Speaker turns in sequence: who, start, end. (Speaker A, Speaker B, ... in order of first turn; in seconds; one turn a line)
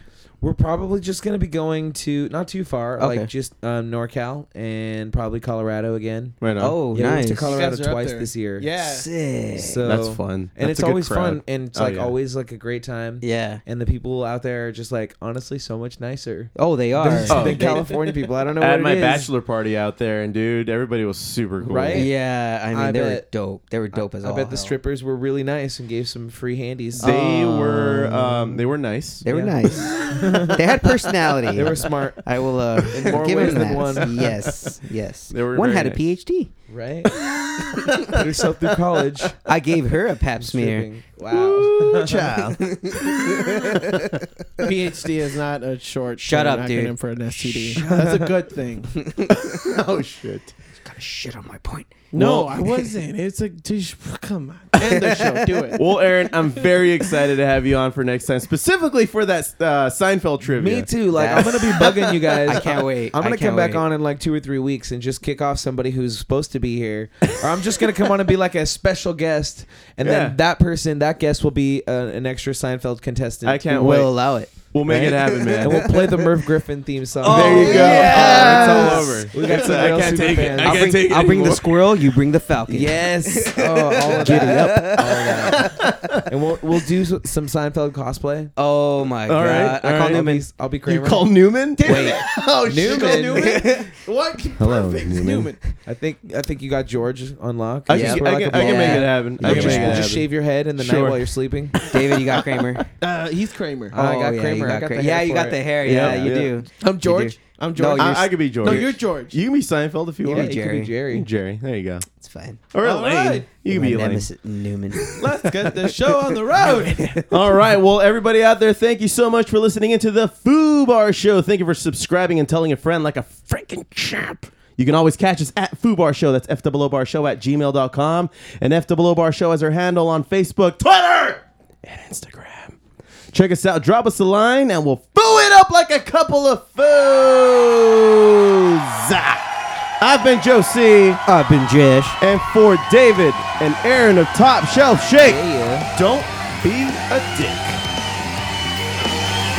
Speaker A: 0.4-8.7
Speaker B: 3.0-3.3
Speaker C: 6.4-6.8
Speaker B: 6.6-7.7
Speaker D: 7.4-9.1
Speaker B: 8.8-9.9
Speaker A: 9.6-19.3
Speaker C: 9.9-12.1
Speaker B: 13.2-13.6
Speaker B: 16.6-17.7
Speaker C: 17.3-22.1
Speaker A: 21.6-22.1
Speaker B: 21.9-24.8
Speaker A: 22.7-23.2
Speaker A: 23.9-27.1
Speaker B: 27.0-28.6
Speaker C: 27.0-29.2
Speaker B: 29.2-36.5
Speaker A: 29.2-34.4
Speaker C: 33.0-34.1
Speaker C: 35.3-36.0
Speaker A: 36.7-37.1
Speaker B: 37.2-38.1
Speaker C: 37.9-38.7
Speaker A: 38.0-39.4
Speaker B: 39.4-40.9
Speaker A: 40.4-42.2
Speaker C: 41.3-42.9
Speaker B: 42.2-44.7
Speaker D: 44.6-49.0
Speaker B: 46.2-48.1
Speaker A: 47.8-48.1
Speaker B: 48.9-49.7
Speaker C: 49.2-50.5
Speaker B: 50.8-52.0
Speaker D: 52.1-55.8
Speaker C: 52.1-52.7
Speaker B: 54.8-55.8
Speaker C: 55.8-60.9
Speaker A: 60.4-74.0
Speaker B: 61.1-63.8
Speaker C: 70.0-70.3
Speaker C: 73.4-76.1
Speaker B: 73.7-76.0
Speaker A: 74.9-81.0
Speaker B: 77.2-79.3
Speaker C: 77.2-81.9
Speaker D: 77.6-78.8
Speaker B: 80.6-85.8
Speaker A: 82.7-88.5
Speaker C: 85.4-86.3
Speaker B: 88.5-90.5
Speaker C: 89.3-90.2
Speaker A: 89.5-92.1
Speaker C: 90.8-93.3
Speaker B: 91.8-92.2
Speaker D: 91.9-95.6
Speaker A: 92.7-93.5
Speaker B: 93.3-93.9
Speaker C: 94.6-95.5
Speaker A: 95.8-101.8
Speaker C: 97.9-101.3
Speaker B: 97.9-100.0
Speaker B: 101.9-102.9
Speaker D: 103.0-104.0
Speaker A: 103.9-106.3
Speaker B: 103.9-108.9
Speaker C: 105.8-106.6
Speaker D: 106.8-109.4
Speaker C: 108.0-110.6
Speaker B: 110.2-110.9
Speaker A: 110.3-111.3
Speaker C: 111.1-112.0
Speaker B: 112.2-112.7
Speaker C: 112.7-114.3
Speaker D: 112.8-113.5
Speaker B: 113.7-115.2
Speaker D: 115.1-117.2
Speaker B: 116.9-117.2
Speaker C: 117.3-132.8
Speaker C: 133.3-139.4
Speaker C: 140.0-141.2
Speaker B: 141.2-142.2
Speaker C: 142.2-147.8
Speaker A: 145.2-145.9